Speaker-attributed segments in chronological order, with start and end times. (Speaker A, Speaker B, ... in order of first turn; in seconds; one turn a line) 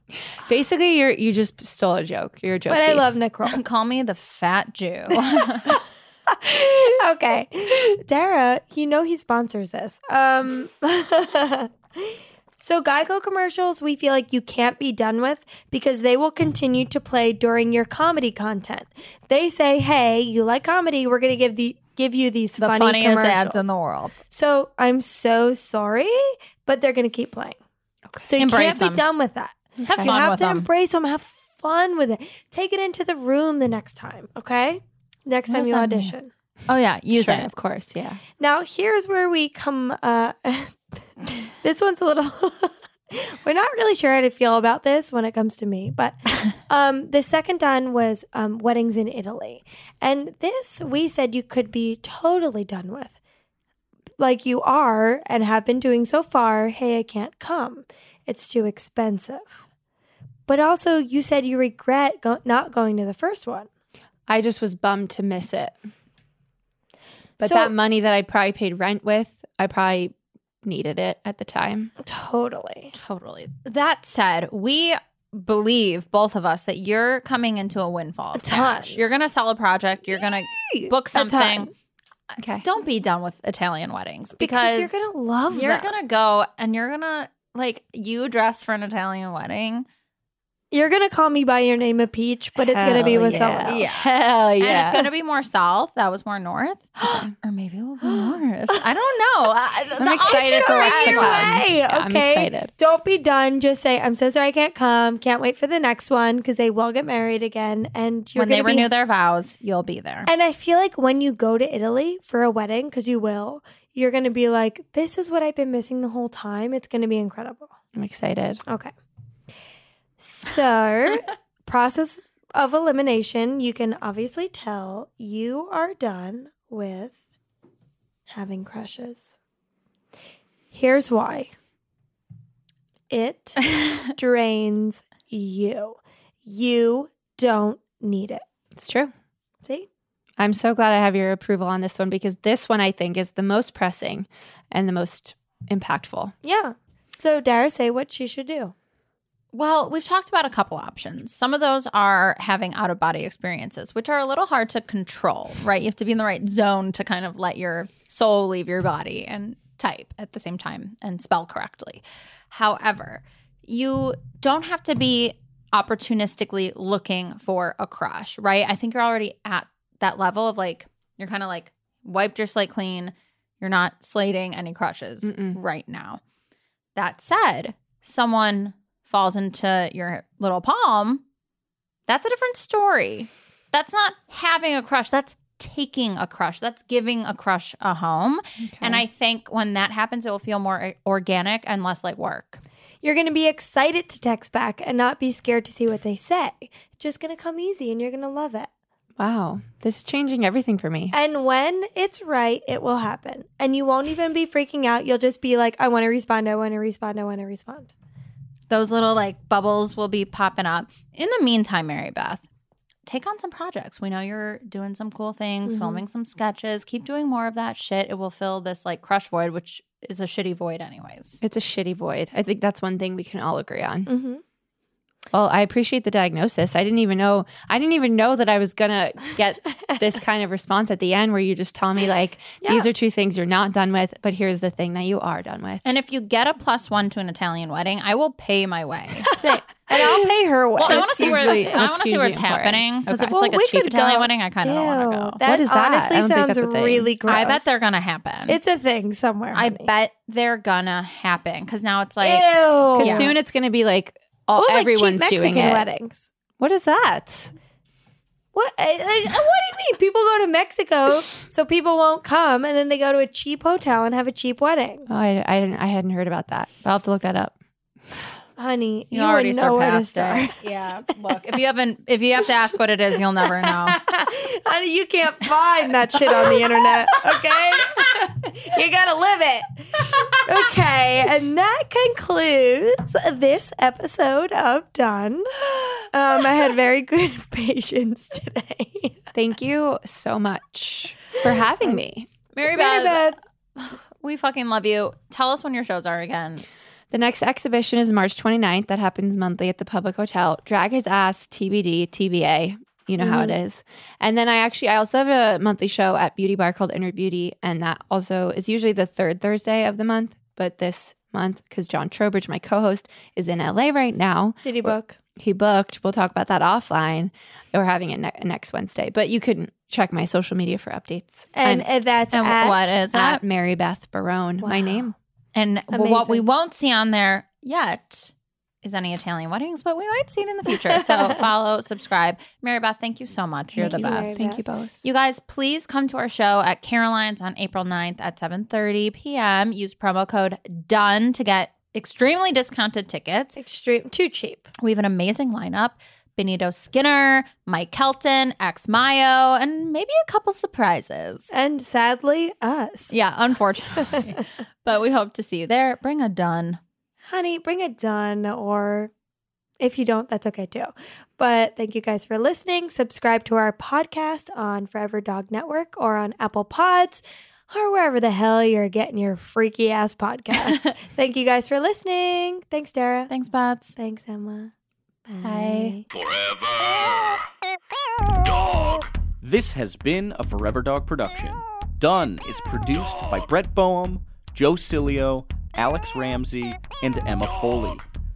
Speaker A: 0.4-3.1
Speaker B: 2.7-3.6
Speaker C: 3.5-5.8
Speaker B: 5.5-23.7
Speaker C: 22.6-24.2
Speaker B: 24.3-27.6
Speaker B: 28.3-36.3
Speaker C: 28.4-29.0
Speaker A: 29.8-30.1
Speaker C: 29.9-30.7
Speaker C: 35.5-36.1
Speaker C: 36.7-37.5
Speaker A: 37.1-38.2
Speaker B: 38.4-53.2
Speaker B: 54.2-59.6
Speaker B: 60.5-63.7
Speaker A: 64.3-65.8
Speaker B: 67.4-67.7
Speaker A: 67.4-71.9
Speaker B: 72.0-72.9
Speaker C: 73.0-81.7
Speaker B: 78.4-79.0
Speaker B: 80.5-81.7
Speaker A: 82.4-82.6
Speaker C: 82.6-89.9
Speaker B: 84.4-85.9
Speaker B: 90.7-93.8
Speaker A: 92.6-95.1
Speaker C: 93.7-101.6
Speaker A: 97.0-97.3
Speaker B: 98.0-99.1
Speaker A: 100.0-102.7
Speaker B: 100.2-108.9
Speaker C: 108.4-110.3
Speaker B: 110.3-117.7
Speaker A: 118.0-118.6
Speaker B: 120.2-127.2
Speaker B: 128.3-129.4
Speaker B: 130.7-131.5
Speaker B: 133.1-138.4
Speaker A: 138.8-139.1
Speaker A: 140.4-146.3
Speaker B: 146.4-148.7
Speaker C: 149.5-176.2
Speaker A: 175.2-175.6
Speaker C: 177.0-181.2
Speaker C: 182.1-192.6
Speaker A: 188.7-189.1
Speaker B: 193.0-198.7
Speaker A: 199.2-201.2
Speaker B: 201.1-207.9
Speaker C: 208.7-212.5
Speaker C: 213.1-221.4
Speaker B: 215.7-216.0
Speaker A: 221.4-224.1
Speaker B: 224.1-224.4
Speaker A: 225.3-235.8
Speaker B: 232.6-232.9
Speaker C: 235.8-239.3
Speaker A: 239.3-240.2
Speaker B: 239.3-241.8
Speaker C: 240.8-245.4
Speaker A: 240.8-243.3
Speaker B: 243.2-247.7
Speaker A: 245.4-247.1
Speaker C: 247.3-248.6
Speaker B: 248.5-249.9
Speaker C: 249.5-253.3
Speaker B: 252.2-253.3
Speaker A: 253.0-255.9
Speaker B: 254.6-256.3
Speaker A: 256.6-257.5
Speaker B: 258.5-265.1
Speaker A: 265.1-267.6
Speaker B: 268.6-270.6
Speaker C: 269.1-274.0
Speaker B: 273.6-289.2
Speaker A: 289.4-292.3
Speaker B: 291.4-292.0
Speaker C: 292.6-296.6
Speaker B: 292.6-293.4
Speaker A: 297.1-321.9
Speaker B: 303.2-303.6
Speaker B: 314.6-315.2
Speaker B: 321.6-322.9
Speaker C: 322.3-323.4
Speaker A: 323.1-325.1
Speaker B: 324.6-325.1
Speaker C: 325.6-334.4
Speaker B: 325.9-326.4
Speaker B: 330.7-331.4
Speaker A: 333.7-335.0
Speaker B: 333.8-334.6
Speaker C: 335.0-343.6
Speaker B: 343.6-344.7
Speaker C: 344.8-351.5
Speaker B: 351.5-353.2
Speaker C: 353.1-356.8
Speaker B: 354.1-354.4
Speaker B: 357.2-359.1
Speaker B: 359.8-373.3
Speaker C: 370.6-370.9
Speaker C: 373.3-373.9
Speaker B: 374.0-374.7
Speaker B: 375.3-376.1
Speaker C: 375.4-376.0
Speaker D: 376.1-377.5
Speaker D: 378.4-379.1
Speaker E: 379.4-388.0